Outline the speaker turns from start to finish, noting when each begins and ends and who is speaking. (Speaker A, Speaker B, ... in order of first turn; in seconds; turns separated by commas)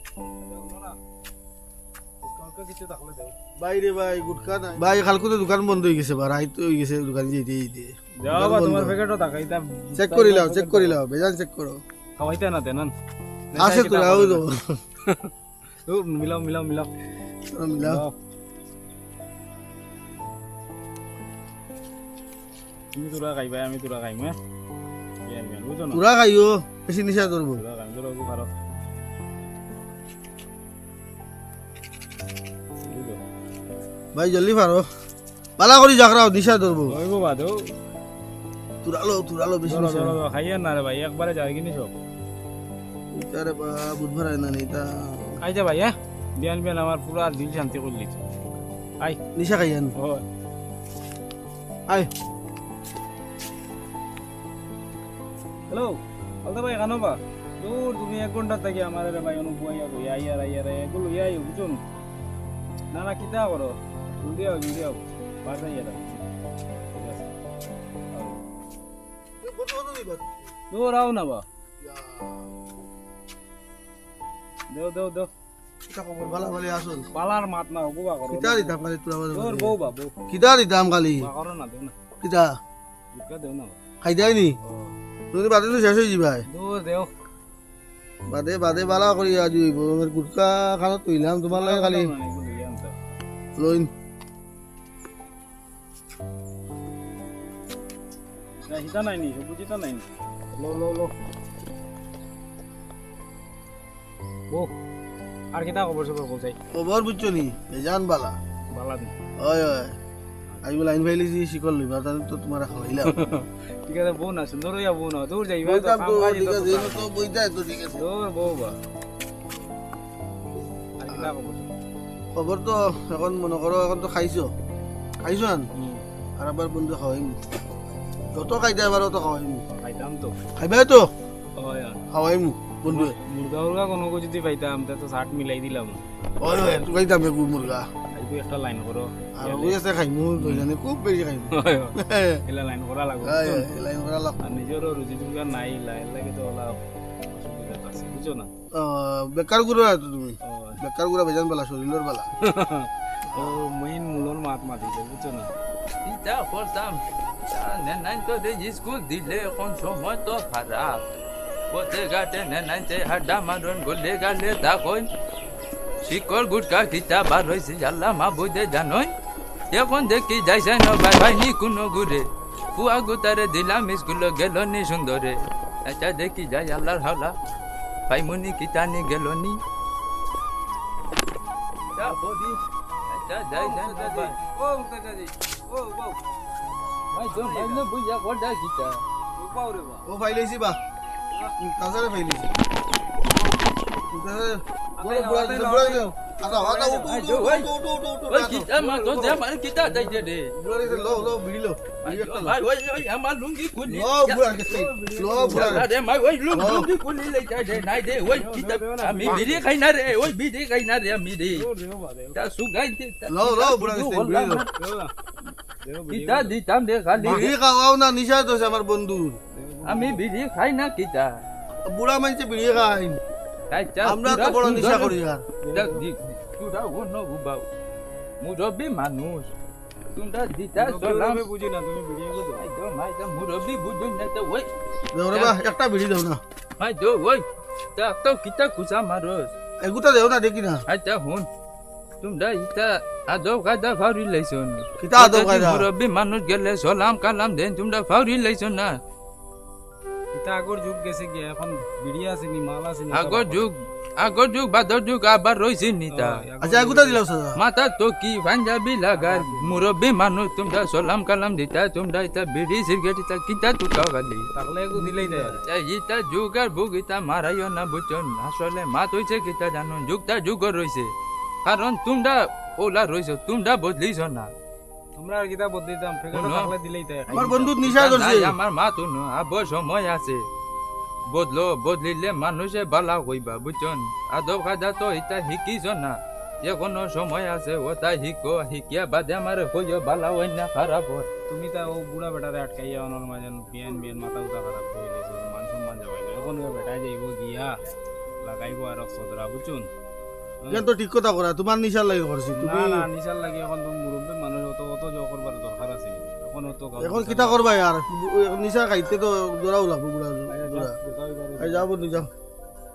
Speaker A: 0.4-1.0, Speaker A: 2.2-3.4, Speaker B: 3.6-9.0, Speaker A: 8.2-11.0, Speaker B: 10.0-11.8, Speaker A: 12.2-12.9, Speaker A: 13.5-14.4, Speaker B: 13.6-14.8, Speaker A: 15.1-15.3, Speaker A: 15.9-16.9, Speaker B: 17.5-18.0, Speaker A: 17.8-18.1, Speaker A: 22.9-24.4, Speaker A: 25.3-26.0, Speaker B: 25.9-27.6, Speaker A: 27.6-28.5, Speaker A: 32.8-33.2, Speaker B: 34.1-34.9, Speaker B: 35.6-37.0, Speaker A: 36.9-37.6, Speaker B: 38.8-40.2, Speaker A: 39.7-41.9, Speaker B: 43.1-45.4, Speaker A: 45.4-48.2, Speaker B: 49.4-49.9, Speaker A: 50.0-50.2, Speaker A: 55.7-61.8, Speaker A: 62.9-66.2, Speaker A: 66.9-67.3, Speaker A: 68.1-68.4, Speaker B: 69.4-70.5, Speaker A: 70.7-71.5, Speaker B: 71.8-72.4, Speaker A: 74.7-75.3, Speaker B: 75.9-77.1, Speaker A: 77.1-78.8, Speaker B: 78.3-79.8, Speaker A: 79.3-80.1, Speaker B: 80.3-81.3, Speaker A: 81.2-82.0, Speaker B: 82.2-82.6, Speaker A: 83.1-83.8, Speaker B: 84.0-84.6, Speaker A: 84.6-85.0, Speaker B: 85.3-86.5, Speaker A: 86.5-87.1, Speaker B: 88.3-92.1, Speaker A: 91.5-93.0, Speaker B: 93.5-93.9, Speaker A: 98.6-101.1, Speaker A: 105.5-106.6, Speaker B: 106.7-108.4, Speaker A: 108.7-109.1, Speaker B: 109.4-110.0, Speaker B: 110.6-113.2, Speaker A: 113.0-117.1, Speaker B: 115.7-118.0, Speaker A: 117.9-118.8, Speaker A: 121.0-121.7, Speaker B: 122.3-124.5, Speaker B: 125.2-125.7, Speaker A: 125.8-126.0, Speaker B: 126.4-127.5, Speaker B: 128.3-129.6, Speaker A: 129.8-130.4, Speaker B: 130.6-131.1, Speaker A: 131.6-132.1, Speaker B: 132.1-133.2, Speaker A: 132.9-136.0, Speaker B: 136.4-137.9, Speaker A: 138.1-139.8, Speaker B: 139.4-142.4, Speaker A: 140.4-140.7, Speaker A: 141.5-143.7, Speaker B: 143.2-144.4, Speaker A: 144.4-146.8, Speaker A: 147.3-148.5, Speaker B: 148.7-152.3, Speaker A: 150.4-150.8, Speaker A: 152.4-155.5, Speaker C: 156.1-161.0, Speaker C: 161.7-165.1, Speaker C: 166.1-169.1, Speaker C: 169.7-177.4, Speaker C: 178.1-179.6, Speaker C: 182.0-182.6, Speaker C: 183.1-184.4, Speaker A: 183.5-186.2, Speaker A: 187.1-187.8, Speaker C: 187.1-189.0, Speaker A: 189.4-190.1, Speaker B: 190.1-190.8, Speaker B: 191.6-192.6, Speaker B: 194.1-198.7, Speaker A: 195.0-197.2, Speaker C: 197.1-197.7, Speaker C: 198.3-200.5, Speaker A: 198.7-200.2, Speaker B: 200.6-202.6, Speaker A: 200.8-201.3, Speaker C: 202.0-204.4, Speaker B: 203.9-205.9, Speaker A: 204.6-205.8, Speaker C: 205.5-211.7, Speaker B: 206.5-206.9, Speaker A: 208.3-209.7, Speaker A: 211.6-212.4, Speaker C: 212.4-214.7, Speaker B: 213.3-214.7, Speaker A: 214.8-215.1, Speaker A: 215.8-216.6, Speaker C: 216.1-217.5, Speaker B: 217.2-219.4, Speaker A: 217.2-217.5, Speaker A: 219.5-220.2, Speaker C: 219.9-221.4, Speaker B: 221.8-223.2, Speaker C: 223.7-225.2, Speaker B: 224.0-225.4, Speaker A: 225.6-226.0, Speaker C: 225.7-227.6, Speaker C: 228.4-229.5, Speaker C: 230.2-231.4, Speaker A: 230.8-232.7, Speaker C: 232.6-234.7, Speaker B: 235.1-236.4, Speaker C: 236.8-237.4, Speaker C: 238.0-239.5, Speaker B: 239.8-240.8, Speaker C: 240.9-241.5, Speaker C: 242.2-249.0, Speaker B: 245.0-245.9, Speaker A: 250.3-253.7, Speaker C: 253.1-256.4, Speaker A: 256.1-257.2, Speaker B: 256.6-257.6, Speaker C: 257.6-264.5, Speaker A: 259.1-259.9, Speaker A: 264.5-265.6, Speaker C: 265.7-271.1, Speaker C: 271.6-274.5, Speaker A: 275.2-278.0, Speaker C: 276.3-276.7, Speaker B: 277.3-278.6, Speaker C: 277.9-280.4, Speaker C: 281.3-291.3, Speaker A: 291.5-297.8, Speaker A: 298.4-299.9, Speaker A: 300.6-300.9, Speaker B: 300.7-303.1, Speaker A: 302.6-307.6, Speaker B: 307.0-310.9, Speaker A: 310.5-312.0, Speaker B: 311.6-312.3